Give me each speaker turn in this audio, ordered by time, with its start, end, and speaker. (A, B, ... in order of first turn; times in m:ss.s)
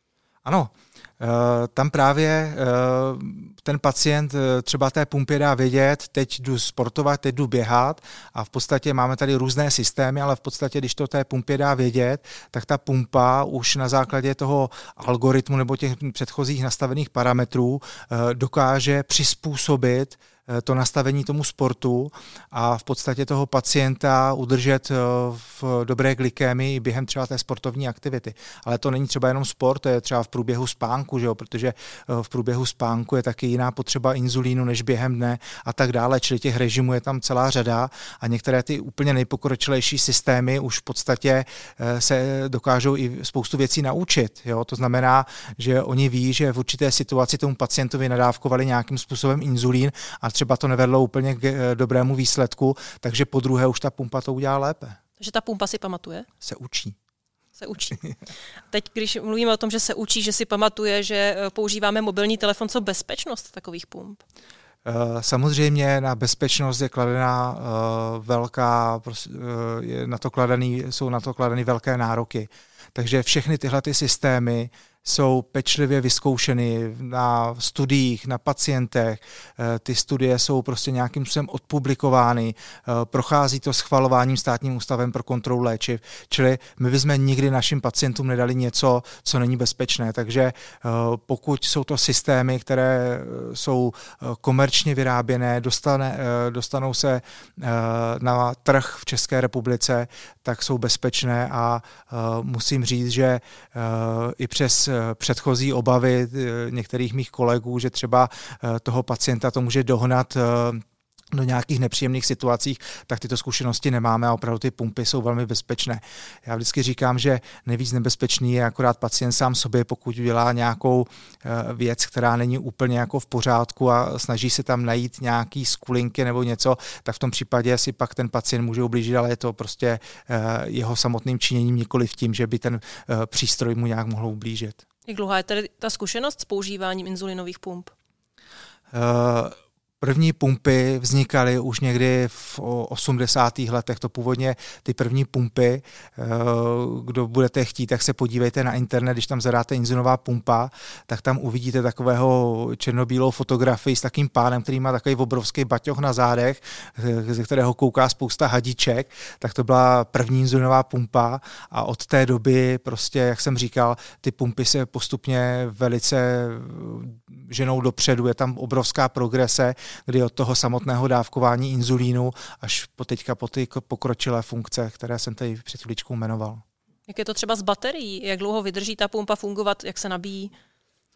0:00.4-0:55.0 A
0:55.2-0:56.3 B
0:56.4-0:57.0 A
0:57.6-0:58.2 B
0:58.7-1:04.2 B
1:04.8-1:50.8 A
1:51.3-2:14.8 A
2:15.1-2:17.9 B
2:18.9-2:56.6 A
2:57.1-3:00.5 B